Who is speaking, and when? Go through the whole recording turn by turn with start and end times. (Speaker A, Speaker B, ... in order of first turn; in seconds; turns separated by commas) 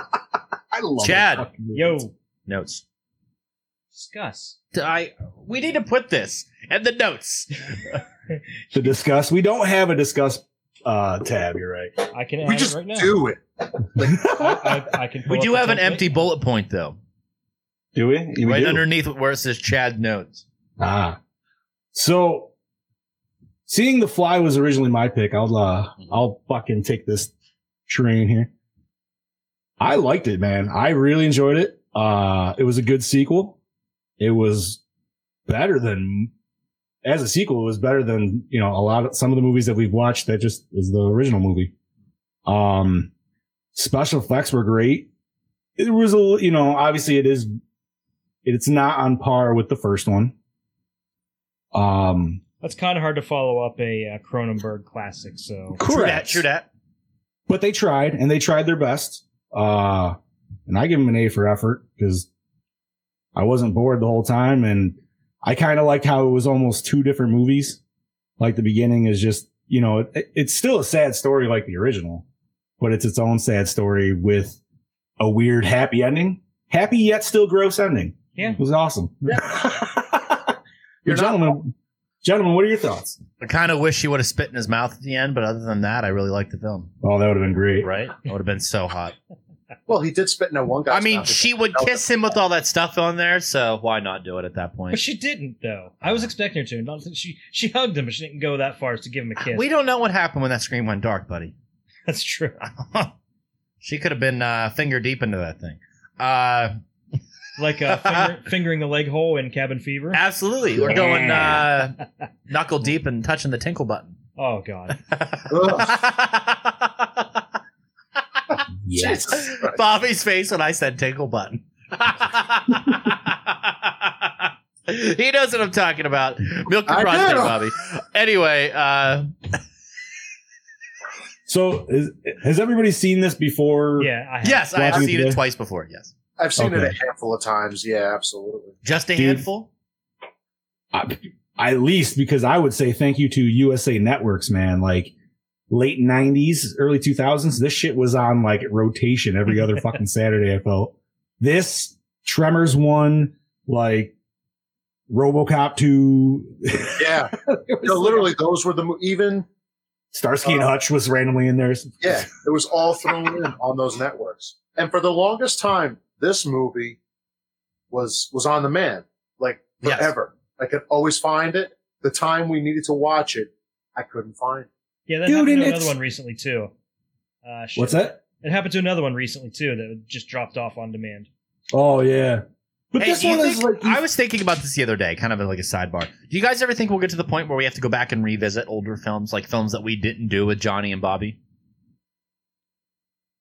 Speaker A: 0.7-2.0, Speaker B: 1.0-1.5, Speaker C: 1.7-2.1, Speaker B: 2.5-2.8, Speaker C: 3.9-4.5, Speaker B: 4.7-8.0, Speaker A: 8.7-12.1, Speaker C: 12.1-13.2, Speaker D: 12.4-14.4, Speaker A: 14.0-14.6, Speaker C: 14.3-16.2, Speaker B: 15.3-17.0, Speaker A: 17.9-18.9, Speaker B: 18.4-20.4, Speaker A: 20.8-21.2, Speaker A: 21.9-22.5, Speaker A: 23.7-27.3, Speaker A: 27.9-28.5, Speaker A: 29.8-33.6, Speaker A: 34.2-34.8, Speaker A: 35.5-36.3, Speaker A: 37.0-41.7, Speaker A: 42.5-43.1, Speaker A: 43.7-45.1, Speaker A: 45.8-47.5, Speaker A: 48.4-50.3, Speaker A: 51.7-52.4, Speaker C: 52.6-55.8, Speaker A: 55.8-56.4, Speaker B: 55.8-56.7, Speaker A: 57.5-62.2, Speaker A: 63.3-67.8, Speaker A: 68.4-72.2, Speaker A: 72.8-74.6, Speaker A: 75.2-83.2, Speaker D: 81.0-81.5, Speaker B: 83.4-86.9, Speaker A: 87.0-87.9, Speaker B: 87.8-89.1, Speaker D: 89.9-92.0, Speaker B: 90.9-95.0, Speaker C: 94.9-99.7, Speaker B: 99.4-101.5, Speaker C: 102.1-102.6, Speaker B: 102.6-103.1, Speaker B: 103.8-106.7, Speaker C: 107.6-110.2, Speaker B: 107.9-108.3, Speaker B: 110.1-111.9, Speaker A: 110.8-111.7, Speaker B: 112.5-114.2, Speaker C: 114.4-115.0, Speaker B: 115.1-117.3, Speaker D: 115.5-116.0, Speaker A: 118.8-119.4, Speaker D: 119.0-119.8, Speaker B: 119.0-129.3, Speaker D: 126.9-127.6, Speaker A: 131.5-134.1, Speaker C: 134.0-135.0, Speaker B: 134.4-136.1, Speaker A: 134.7-135.4, Speaker D: 136.4-138.8, Speaker A: 136.6-137.0, Speaker B: 138.8-139.7, Speaker A: 139.2-139.4, Speaker A: 140.9-145.1, Speaker A: 145.7-154.1, Speaker A: 155.1-158.3, Speaker D: 157.0-159.4, Speaker A: 160.1-162.3, Speaker D: 160.4-160.7, Speaker D: 162.0-167.0, Speaker D: 167.9-174.7, Speaker B: 169.8-170.1, Speaker C: 175.1-176.7, Speaker A: 175.2-175.9, Speaker C: 177.4-181.3, Speaker A: 177.8-178.2, Speaker A: 181.7-184.0, Speaker B: 183.0-191.4